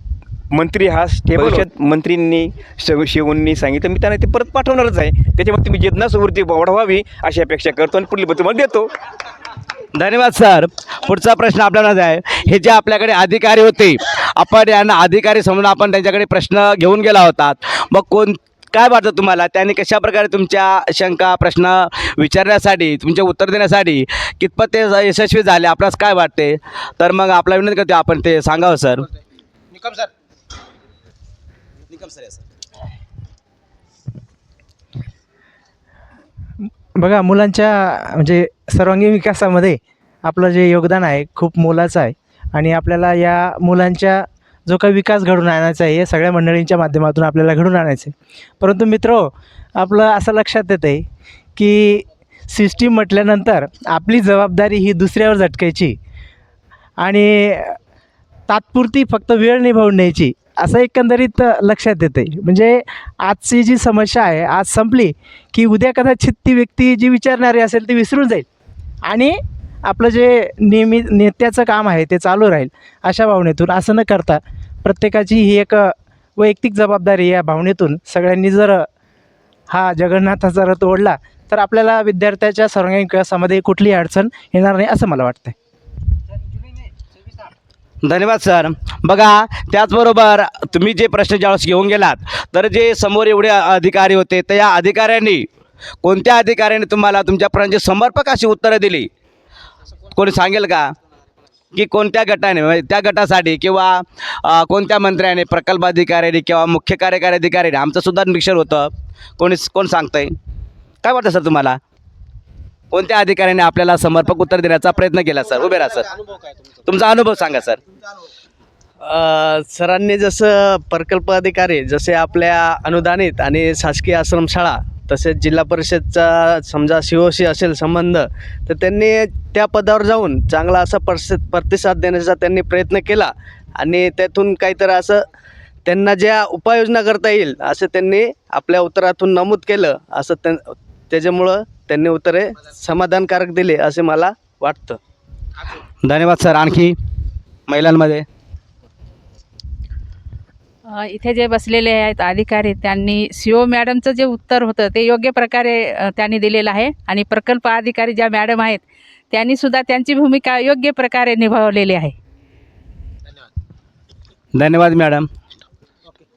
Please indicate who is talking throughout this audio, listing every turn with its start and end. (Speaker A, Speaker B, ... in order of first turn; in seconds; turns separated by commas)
Speaker A: 0.5-8.9, Speaker B: 9.9-29.0, Speaker C: 37.0-51.0, Speaker C: 51.5-56.0, Speaker C: 57.0-57.8, Speaker C: 58.5-68.4, Speaker C: 69.0-78.8, Speaker C: 79.7-85.5, Speaker B: 88.0-95.5, Speaker B: 96.0-99.1, Speaker B: 100.1-100.9, Speaker B: 101.7-110.3, Speaker B: 111.0-111.8, Speaker B: 112.9-116.1, Speaker B: 116.8-117.8, Speaker D: 119.0-135.2, Speaker D: 135.8-145.0, Speaker B: 146.0-146.9, Speaker B: 147.7-148.2, Speaker E: 150.9-162.1, Speaker B: 164.5-165.3